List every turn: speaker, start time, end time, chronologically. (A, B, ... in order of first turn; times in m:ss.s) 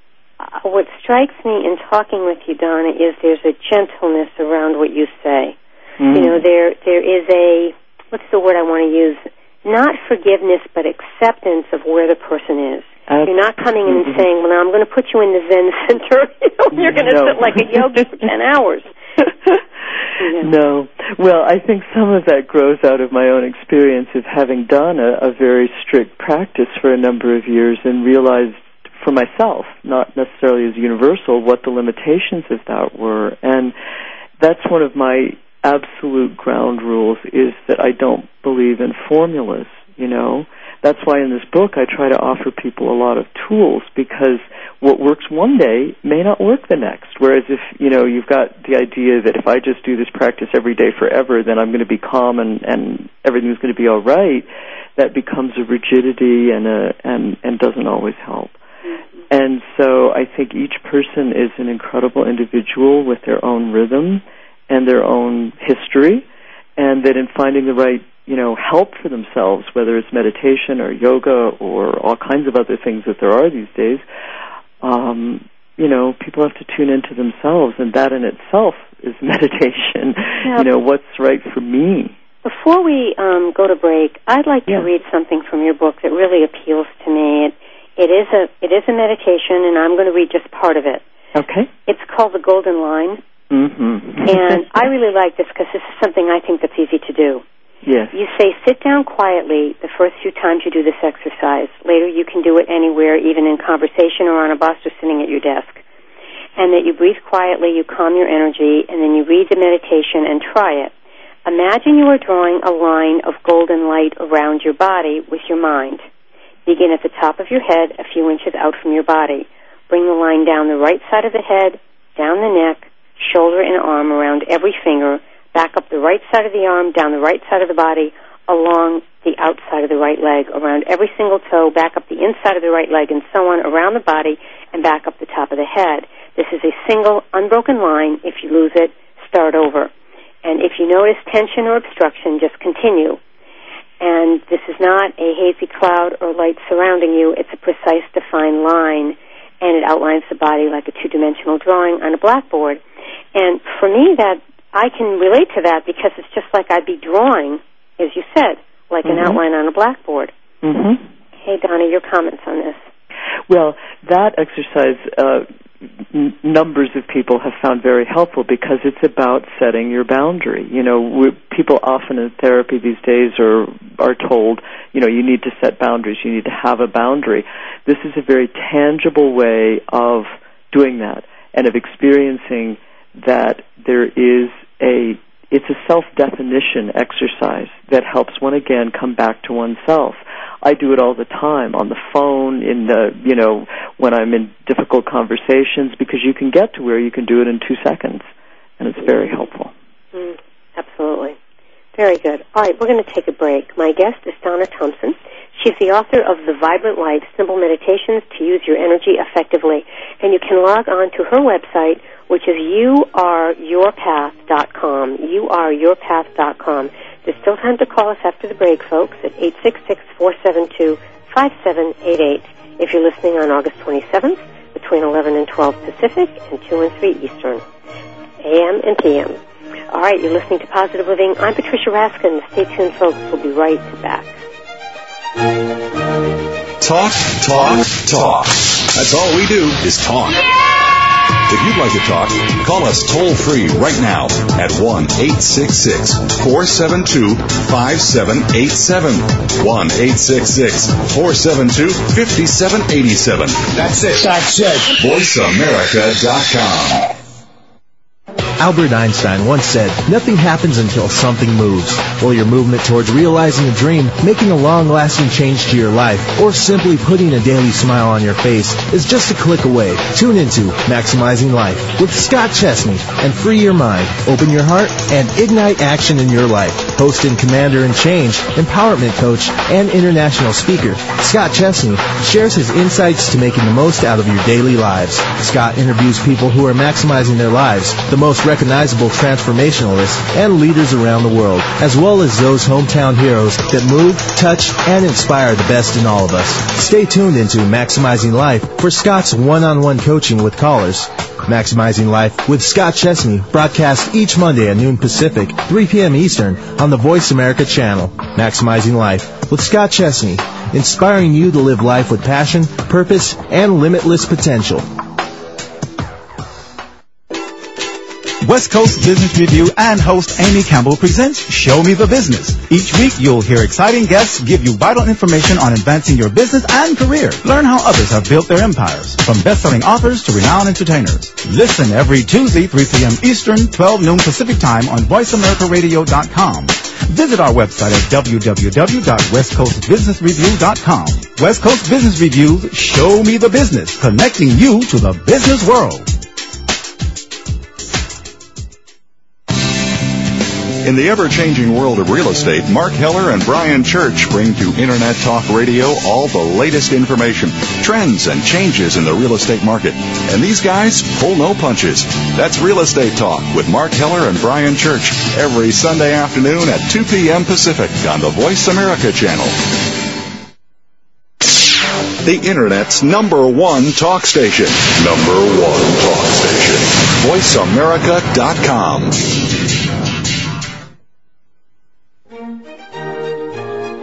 0:00.4-0:05.6 A
0:06.0-0:06.4 B
0:06.1-0:18.9 A
0:13.1-0:13.4 B
0:13.9-0:14.2 B
0:16.8-0:18.0 B
0:20.2-0:20.5 A
0:20.4-0:33.7 B
0:34.4-0:58.6 B
0:59.3-1:06.2 B
1:06.8-1:14.0 B
1:14.8-1:22.2 B
1:22.4-1:31.0 A
1:31.4-1:31.7 B
1:31.9-1:33.2 A
1:33.5-1:34.6 B
1:34.3-1:37.4 A
1:37.8-1:38.2 B
1:38.1-1:45.8 A
1:46.6-1:50.9 A
1:51.4-1:56.0 A
1:56.7-2:19.9 A
2:20.4-2:23.2 A
2:24.0-2:32.8 A
2:33.4-2:40.3 A
2:39.1-2:39.4 B
2:40.6-2:41.0 B
2:41.4-2:42.8 A
2:43.5-2:45.5 B
2:46.1-3:18.2 B
3:18.8-3:19.7 B
3:20.1-3:21.4 A
3:22.0-3:47.6 A
3:48.4-3:49.4 A
3:49.9-3:54.3 A
3:56.8-4:00.5 C
4:01.4-4:17.1 C
4:18.6-5:14.9 D
5:18.4-5:46.1 E
5:50.8-6:09.6 C
6:12.1-6:19.4 C